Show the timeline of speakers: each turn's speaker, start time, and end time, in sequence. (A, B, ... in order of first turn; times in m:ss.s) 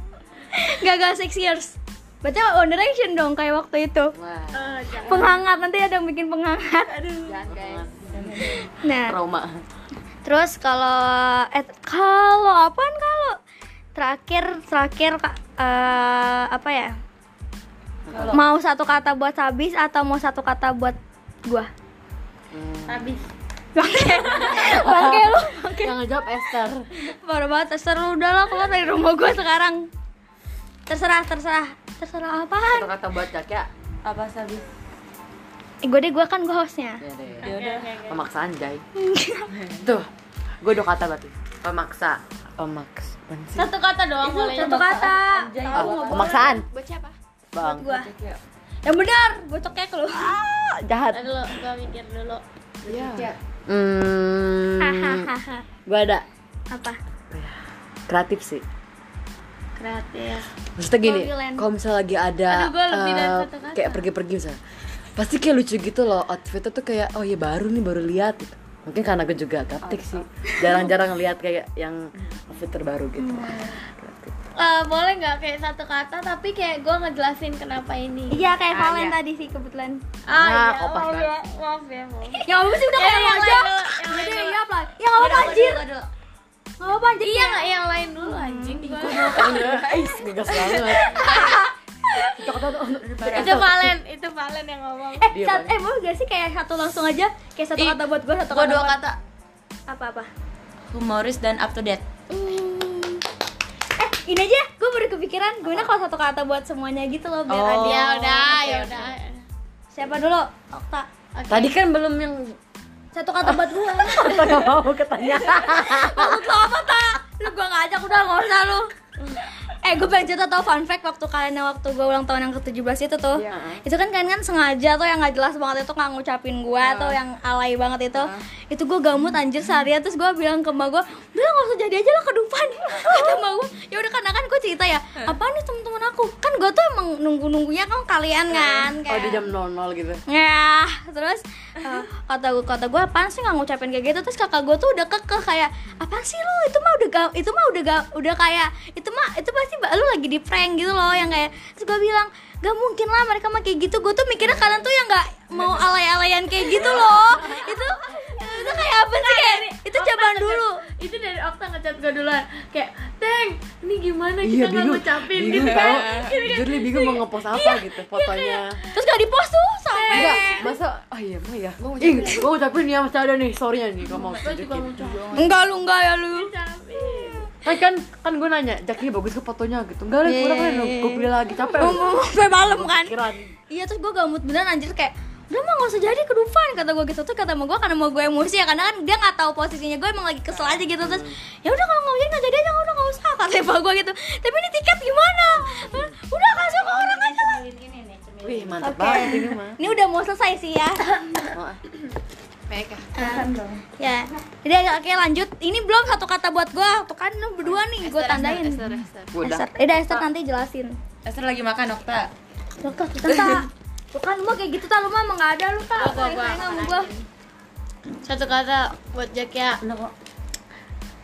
0:00.5-0:04.2 A
0:04.2-0:04.9 B
0:04.5-0:05.4 C
0:05.0-0:07.3 A
0:07.2-0:07.9 D
0:07.5-0:09.6 B
0:08.1-0:08.6 E
0:08.6-0:09.2 A
0:10.2-0:13.4 A
0:14.0-0:17.0 A
0:18.1-0:18.4 B
0:18.1-0:18.4 E
0:18.3-0:21.7 A
0:22.5-0:23.2 B
0:22.9-0:23.2 C
0:23.8-0:26.0 A
0:24.4-0:26.8 B
0:27.0-0:29.9 A
0:30.9-0:32.9 A
0:32.6-0:33.7 B
0:34.0-0:34.7 E
0:35.8-0:37.0 A
0:37.0-0:37.5 B
0:37.4-0:38.2 C
0:37.4-0:37.9 E
0:38.1-0:38.8 B
0:39.0-0:39.5 A
0:39.8-0:40.1 B
0:40.6-0:43.7 B
0:43.6-0:44.8 C
0:44.2-0:46.5 A
0:44.4-0:46.5 E
0:45.7-0:46.7 B
0:46.1-0:47.2 D
0:47.5-0:48.0 B
0:47.6-0:48.1 A
0:47.8-0:48.4 E
0:48.8-0:50.3 A
0:50.1-0:51.3 B
0:51.1-0:52.4 C
0:52.9-0:53.3 D
0:52.9-0:53.3 E
0:53.2-0:55.3 B
0:54.8-0:55.6 A
0:55.9-0:56.2 B
0:56.7-0:57.0 A
0:57.3-0:57.6 B
0:58.1-0:58.6 B
0:59.8-1:00.5 C
1:00.8-1:04.6 B
1:01.0-1:01.6 A
1:02.5-1:04.1 C
1:05.2-1:14.4 B
1:10.5-1:10.9 A
1:13.2-1:13.8 A
1:14.6-1:18.5 C
1:18.3-1:20.0 A
1:20.3-1:24.6 C
1:20.3-1:21.3 B
1:22.4-1:25.8 A
1:25.2-1:26.1 E
1:26.8-1:27.7 A
1:27.2-1:29.8 C
1:28.2-1:30.0 A
1:29.3-1:31.5 B
1:30.5-1:32.4 A
1:31.2-1:31.6 C
1:32.4-1:34.0 B
1:33.2-1:33.7 E
1:33.3-1:35.3 C
1:35.2-1:39.0 A
1:35.3-1:35.8 B
1:37.8-1:39.2 E
1:39.9-1:40.3 A
1:40.9-1:42.0 E
1:42.3-1:43.2 A
1:44.0-1:48.3 A
1:45.6-1:45.9 B
1:47.5-1:49.0 E
1:47.8-1:49.4 C
1:49.9-1:51.1 A
1:51.4-1:51.7 C
1:51.5-1:52.6 B
1:53.1-1:54.7 A
1:53.4-1:56.7 B
1:55.3-1:58.9 A
1:59.8-2:19.4 A
2:03.4-2:03.8 B
2:18.5-2:20.2 B
2:20.3-2:40.8 A
2:31.1-2:31.5 B
2:36.9-2:37.3 B
2:38.3-2:47.8 C
2:44.4-2:48.8 B
2:45.5-2:46.3 E
2:48.2-2:50.7 A
2:49.9-2:50.6 C
2:50.1-2:55.0 B
2:51.8-2:52.5 D
2:54.3-2:55.5 C
2:55.0-2:55.5 D
2:55.3-2:57.5 A
2:56.3-2:57.5 C
2:57.6-3:03.5 B
3:00.2-3:03.2 A
3:03.7-3:17.6 A
3:11.0-3:11.4 B
3:15.9-3:16.1 B
3:16.9-3:19.1 E
3:18.4-3:19.9 B
3:18.8-3:21.5 A
3:21.5-3:21.8 B
3:22.7-3:23.1 D
3:23.2-3:23.8 E
3:23.2-3:28.8 A
3:27.7-3:29.3 D
3:29.3-3:29.7 B
3:29.4-3:31.0 A
3:31.2-3:32.3 E
3:32.8-3:37.1 A
3:33.3-3:33.6 E
3:36.0-3:37.1 C
3:38.2-3:39.8 C
3:39.8-3:40.1 B